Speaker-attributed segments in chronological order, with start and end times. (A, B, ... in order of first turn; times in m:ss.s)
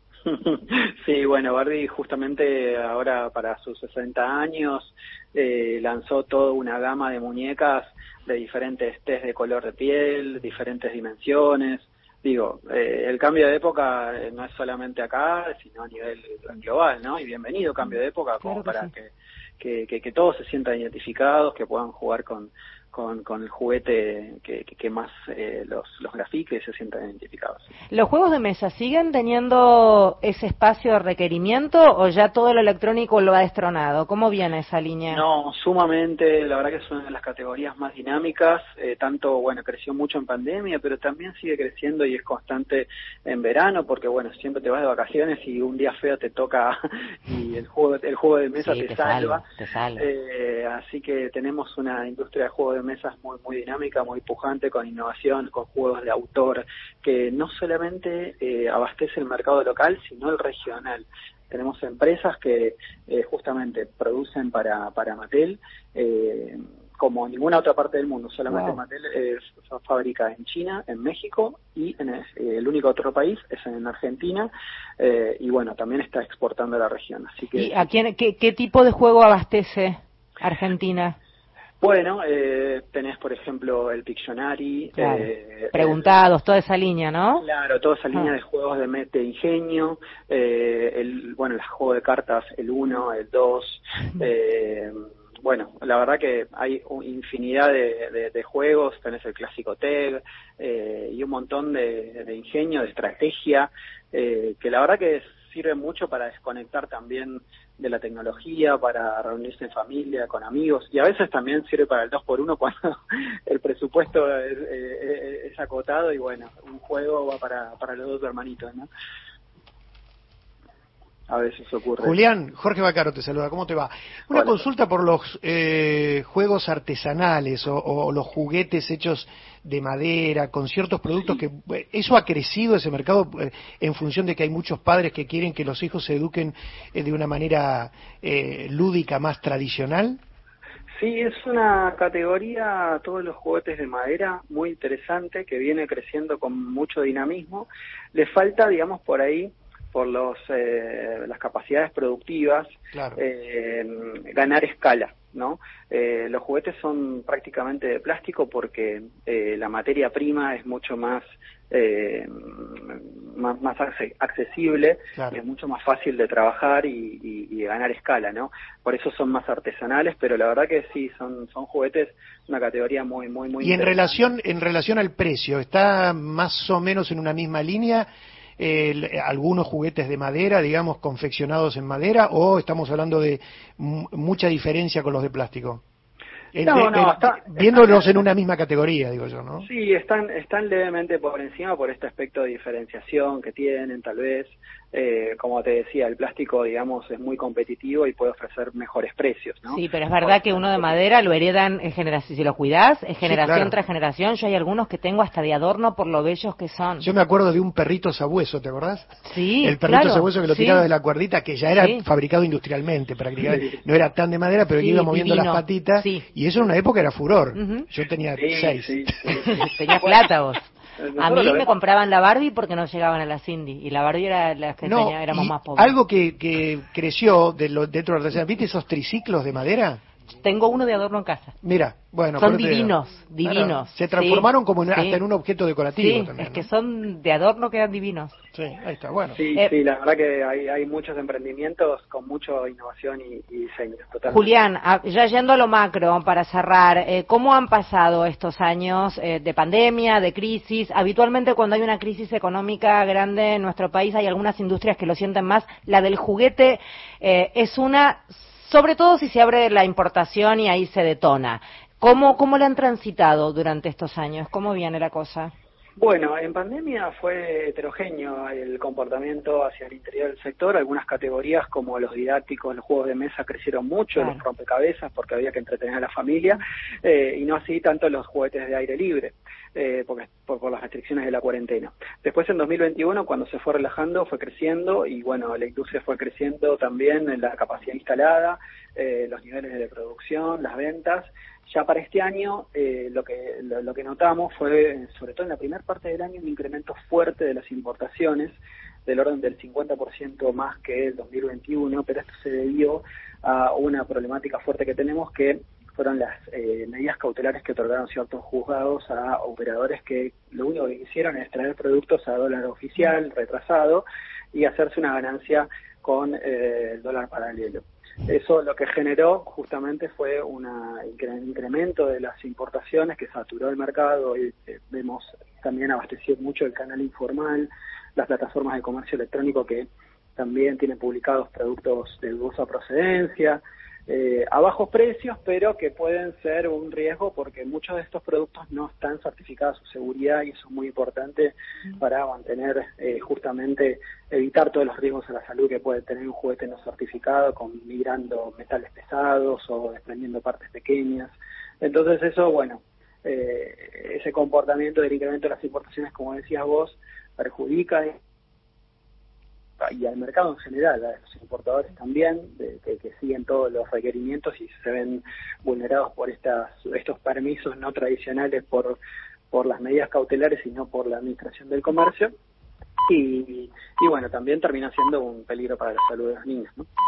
0:00.2-0:27.7 A
0:18.4-0:18.9 B
0:27.9-0:35.2 B
0:35.1-0:49.4 A
0:48.6-0:50.1 B
0:50.0-1:17.9 A
1:08.5-1:08.8 B
1:17.5-1:21.2 B
1:21.8-1:26.0 A
1:25.0-1:27.4 B
1:27.4-1:58.9 A
2:01.3-2:02.1 A
2:02.0-2:20.2 C
2:04.3-2:04.6 A
2:21.0-2:54.3 A
2:32.9-2:33.2 C
2:53.6-2:58.1 C
2:58.6-3:05.8 C
3:06.5-3:09.7 C
3:06.6-3:08.1 A
3:09.6-3:21.0 A
3:19.7-3:27.1 B
3:23.2-3:23.7 C
3:27.0-3:39.6 C
3:29.2-3:30.8 B
3:31.8-3:32.0 B
3:34.7-3:36.2 B
3:37.5-3:37.8 B
3:38.3-3:40.3 A
3:39.3-3:40.6 B
3:41.0-3:41.7 A
3:41.2-3:45.9 B
3:44.8-3:50.0 C
3:50.4-3:51.5 B
3:51.6-3:56.7 C
3:52.4-3:55.2 B
3:55.9-3:58.4 B
3:58.5-3:59.4 C
3:59.3-4:04.6 A
4:04.3-4:25.5 B
4:26.0-5:58.2 A
5:59.8-6:09.0 A
6:09.5-6:12.3 A
6:13.1-6:16.8 A